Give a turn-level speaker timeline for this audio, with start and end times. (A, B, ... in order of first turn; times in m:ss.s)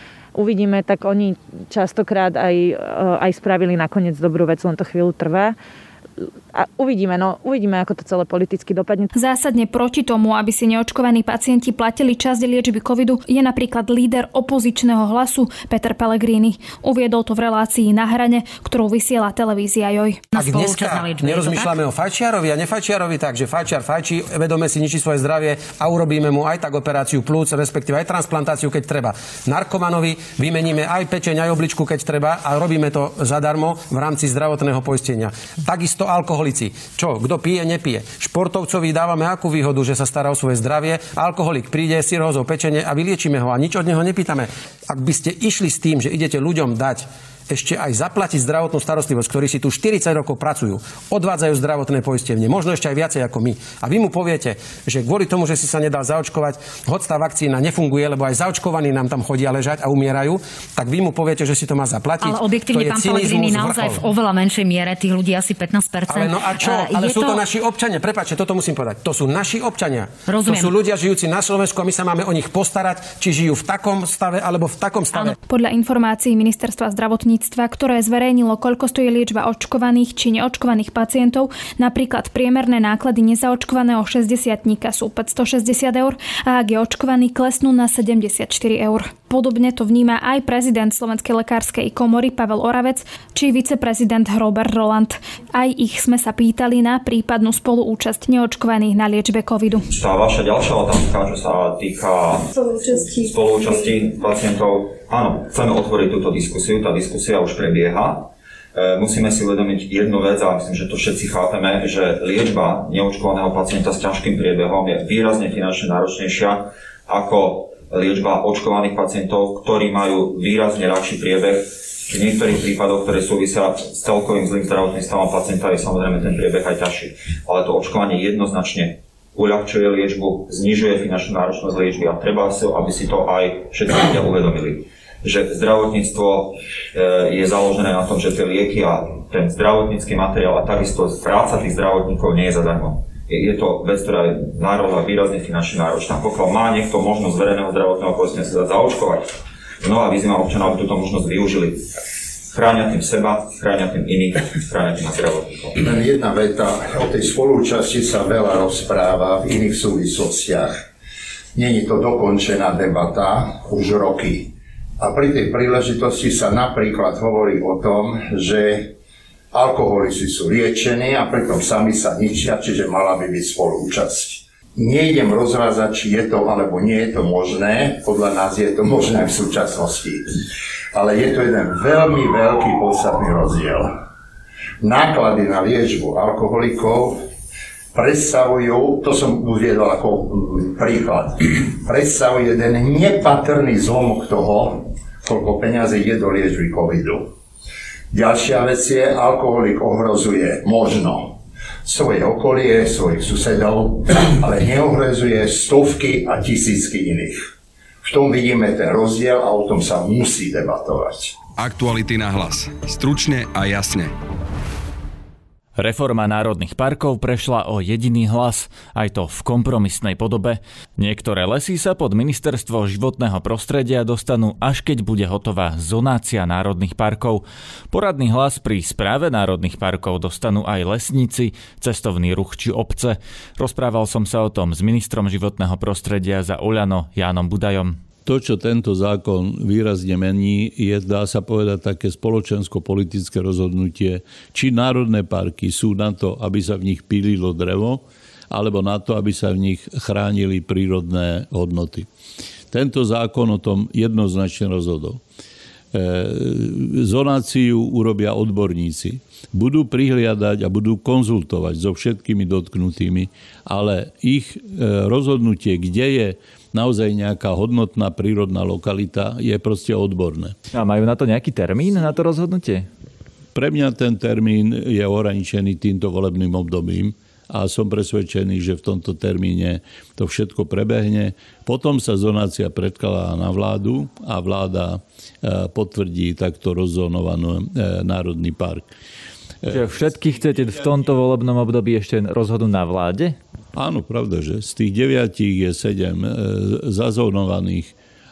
0:00.4-0:05.6 A
0:06.5-0:09.1 A
0:09.1-0:20.2 B
0:20.3-0:21.8 C
0:20.3-1:04.1 D
1:02.2-1:07.4 C
1:06.1-1:15.4 D
1:10.3-1:10.7 C
1:15.5-1:39.9 B
1:39.9-2:29.3 E
2:29.8-2:31.8 E
2:32.5-2:35.8 E
2:35.8-2:40.8 F
2:41.6-2:48.9 F
2:49.5-3:00.3 F
3:00.9-3:03.9 F
3:04.8-3:07.2 F
3:07.9-3:17.3 F
3:18.1-3:27.4 F
3:28.0-3:31.4 F
3:31.6-3:34.1 G
3:35.8-3:58.0 H
3:58.2-4:12.1 I
4:12.7-4:15.2 I
4:15.9-4:30.6 I
4:30.7-4:32.9 H
4:33.5-4:48.9 I
4:49.7-4:53.4 H
4:53.8-4:58.0 I